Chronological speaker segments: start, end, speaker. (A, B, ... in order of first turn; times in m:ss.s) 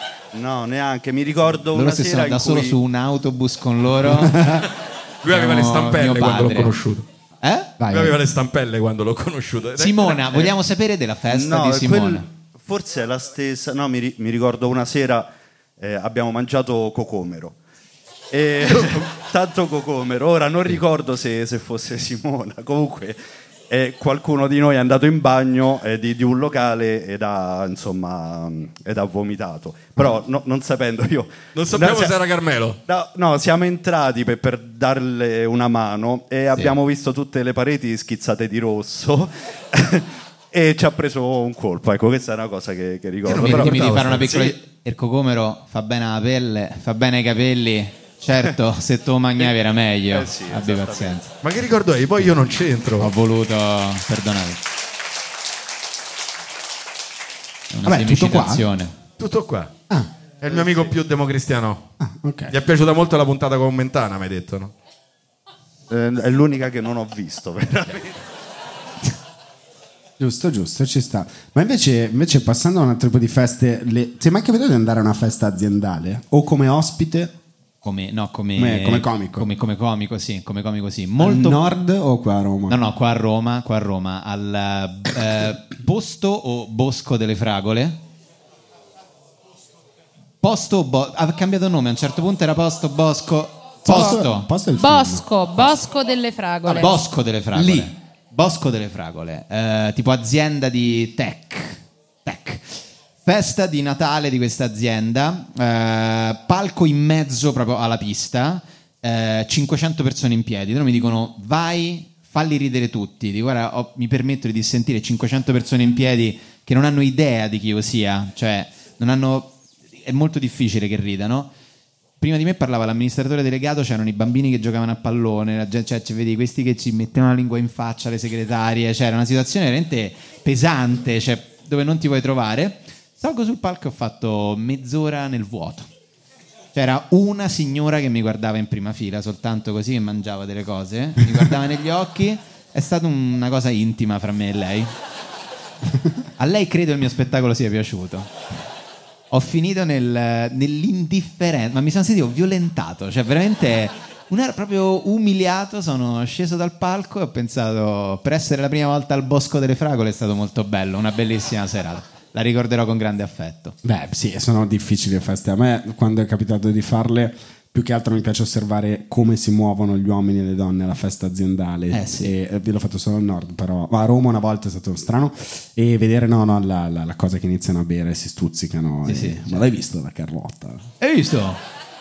0:00.3-0:02.8 A
0:01.7-0:04.4 B
0:04.0-0:04.7 C
0:05.2-0:07.0 D
0:05.3-0:06.7 B
0:07.4-0:07.7 B
0:07.8-0:08.2 C
0:07.9-0:10.5 D
0:09.8-0:12.2 B
0:11.3-0:17.6 A
0:18.3-0:23.2 A
0:23.7-0:32.2 A
0:31.5-0:32.8 D
0:32.9-0:44.5 A
0:43.2-0:44.5 D
0:43.2-0:51.3 B
0:50.1-0:51.2 A
0:51.4-0:53.1 D
0:53.0-0:54.6 B
0:57.7-0:59.0 B
0:57.8-0:58.6 C
0:59.2-0:59.7 D
1:00.4-1:01.9 D
1:00.4-1:01.0 A
1:02.0-1:02.5 C
1:02.5-1:04.7 D
1:05.9-1:08.2 A
1:10.2-1:17.3 C
1:17.8-1:21.6 B
1:18.6-1:19.5 C
1:21.2-1:22.8 C
1:22.7-1:28.0 B
1:30.4-1:34.5 B
1:33.8-1:35.7 C
1:34.8-1:37.0 E
1:36.6-2:01.5 B
1:37.5-1:37.9 C
2:02.2-2:15.9 B
2:16.7-2:24.9 B
2:26.4-2:28.3 B
2:29.3-2:43.8 B
2:43.8-3:00.9 C
2:51.9-2:52.3 B
2:59.0-2:59.6 B
3:01.0-3:01.6 B